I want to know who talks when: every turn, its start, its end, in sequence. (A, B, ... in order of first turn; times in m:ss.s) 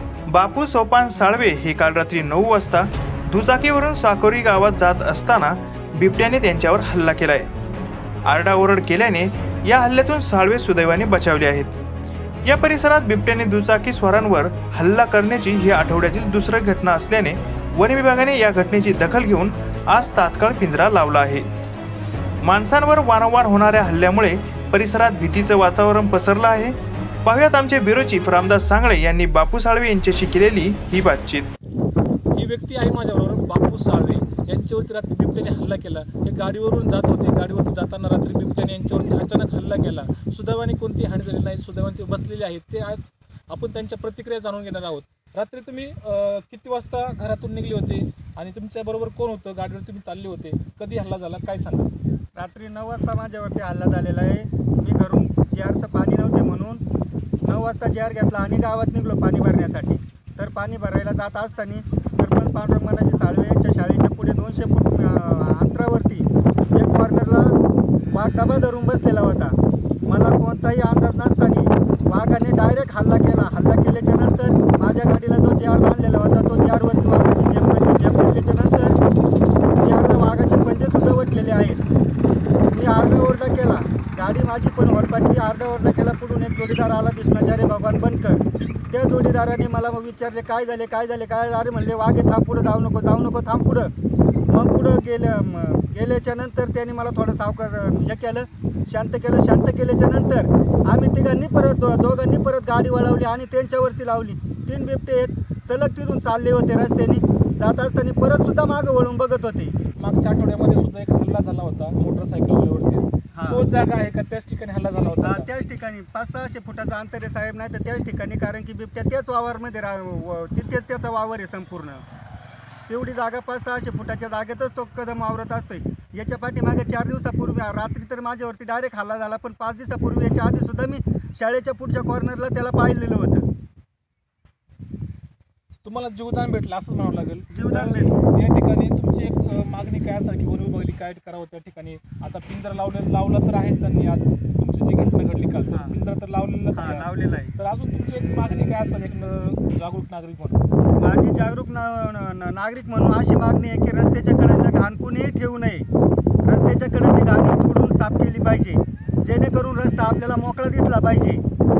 0:00.3-0:07.5 A
0:08.3-0:11.8 A
0:12.4-0:21.5 A
0:22.4-0:31.5 A
0:32.3-0:51.9 B
0:52.4-0:56.8 C
0:57.4-1:07.6 C
1:08.1-1:19.0 C
1:19.8-1:21.8 C
1:22.7-1:33.9 C
1:34.5-1:49.8 C
1:50.0-1:55.5 B
1:53.3-1:53.6 C
1:55.2-2:02.0 C
2:02.9-2:13.5 C
2:15.8-2:30.6 B
2:17.5-2:18.2 C
2:25.7-2:26.0 C
2:26.7-2:27.6 C
2:31.0-2:35.9 C
2:36.4-2:41.4 C